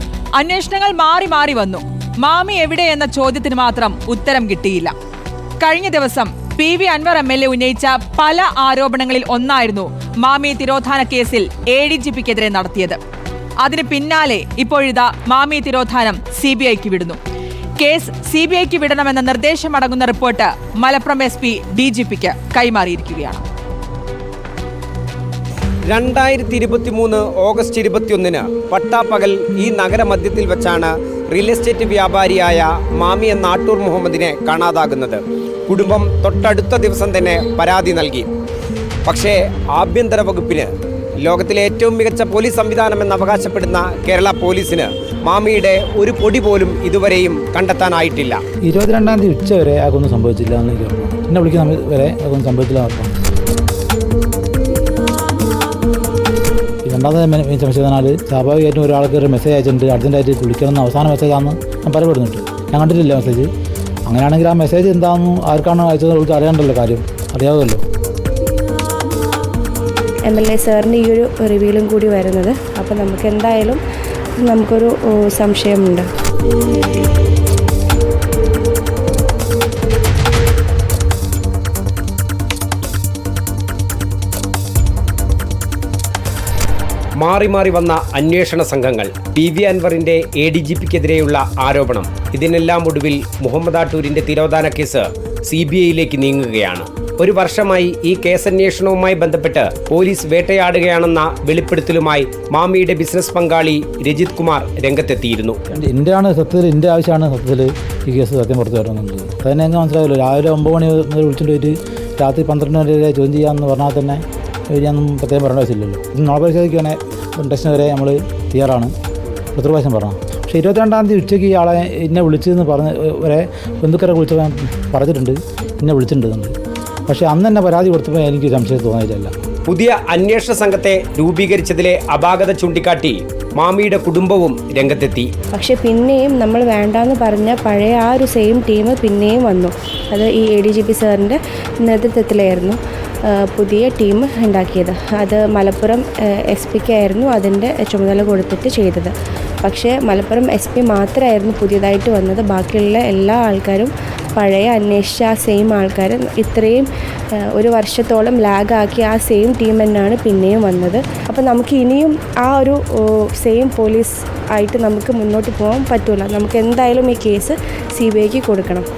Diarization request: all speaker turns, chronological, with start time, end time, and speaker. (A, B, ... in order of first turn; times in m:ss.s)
0:00.4-0:04.9 A
0:05.6-0:13.0 A
0:13.6-0:17.2 A
0:17.8-0:23.4 A
0:25.9-0:38.3 B
0:39.1-0:40.7 B
0:41.2-0:48.4 B
0:48.6-0:53.2 C
0:56.8-1:03.5 C
1:04.1-1:07.8 C
1:10.3-1:13.8 D
1:14.4-1:16.1 D
1:27.2-1:45.6 B
1:45.7-1:58.9 C
1:59.5-2:06.5 C
2:07.1-2:09.3 C
2:09.7-2:15.3 B
2:15.5-2:22.8 D
2:23.3-2:29.1 D
2:29.6-2:36.8 D
2:37.6-2:42.8 D
2:43.4-2:48.9 D